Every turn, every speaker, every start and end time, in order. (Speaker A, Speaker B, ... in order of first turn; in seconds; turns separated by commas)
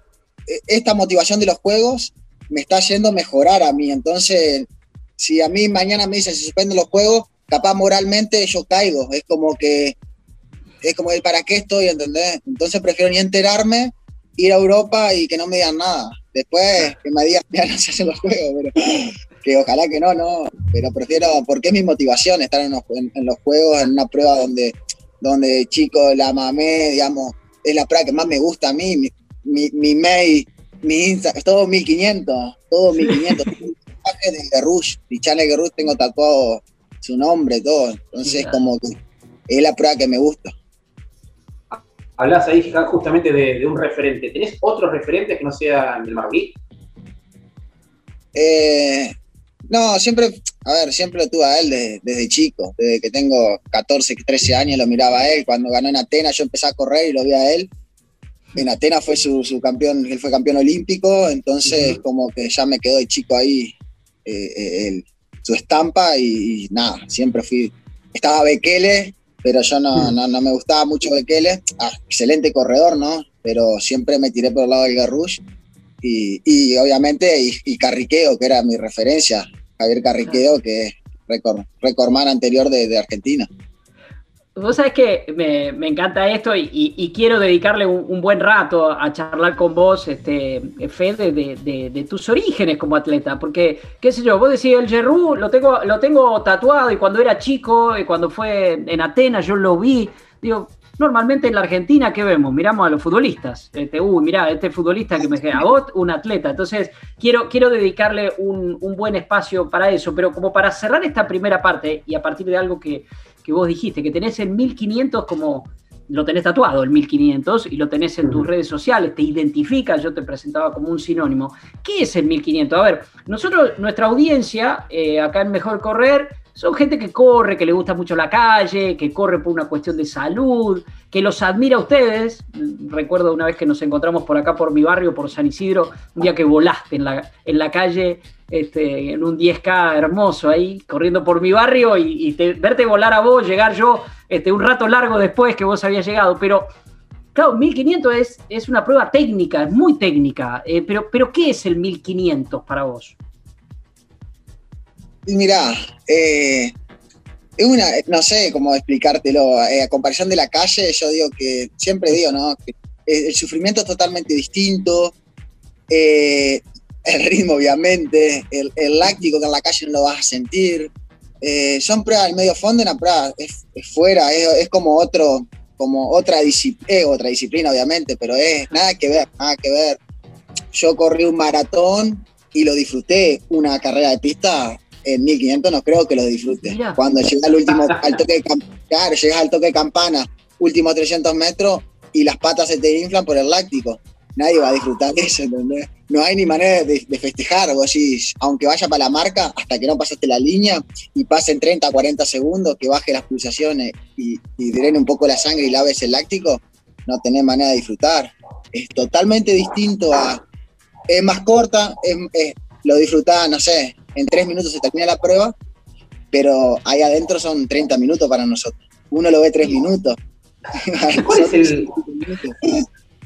Speaker A: 0.5-10.0, Speaker A: 10.8-38.9, Speaker B: 33.1-33.3, Speaker B: 38.2-38.6, Speaker A: 39.5-40.5, Speaker C: 41.7-46.6, Speaker A: 48.3-49.2, Speaker A: 49.7-57.7, Speaker A: 58.5-75.4, Speaker C: 61.7-62.0, Speaker A: 76.0-83.5, Speaker B: 84.6-146.7, Speaker B: 147.3-153.2, Speaker A: 155.3-156.8, Speaker A: 157.6-165.2, Speaker A: 165.9-180.0, Speaker A: 180.7-210.4, Speaker B: 186.6-187.0, Speaker A: 211.1-215.6, Speaker A: 216.3-220.2, Speaker A: 220.8-222.8, Speaker C: 221.2-222.0